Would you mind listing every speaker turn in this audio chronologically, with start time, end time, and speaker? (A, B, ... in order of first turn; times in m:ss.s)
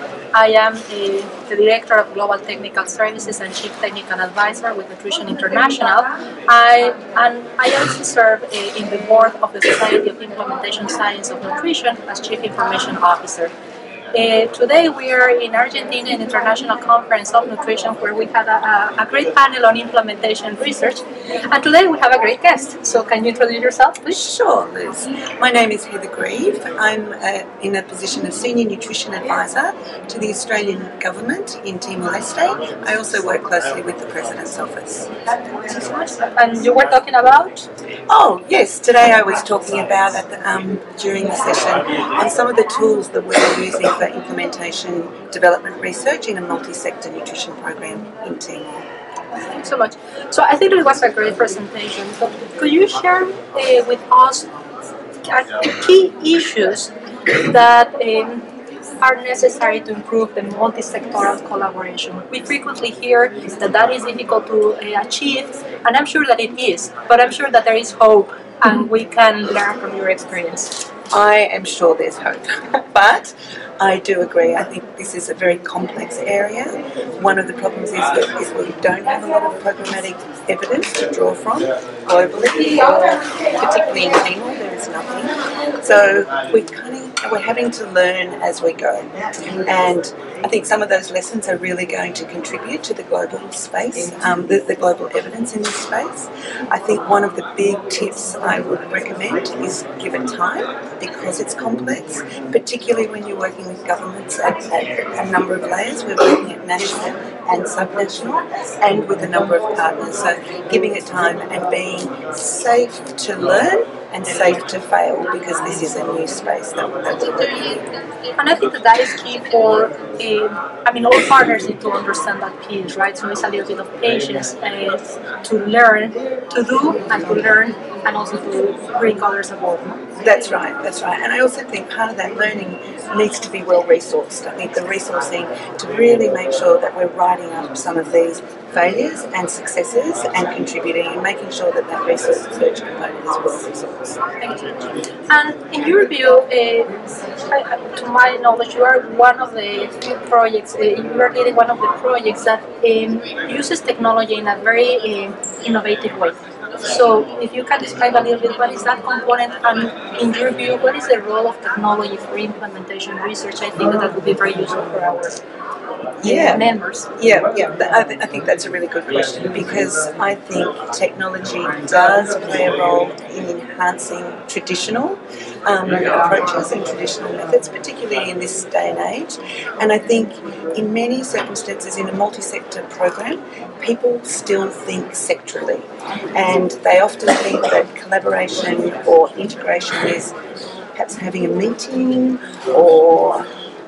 0:00.3-0:13.5 A
0:14.1-0:24.2 A
0:24.1-0:35.1 B
0:35.6-0:37.7 A
0:38.1-0:48.8 B
0:49.5-0:54.5 A
0:55.2-0:58.4 A
0:59.0-1:10.8 A
1:11.1-1:57.8 B
1:58.4-2:10.2 A
2:10.2-2:24.2 B
2:24.4-2:45.4 A
2:46.2-3:10.3 B
2:46.2-2:47.1 A
3:10.9-3:13.5 B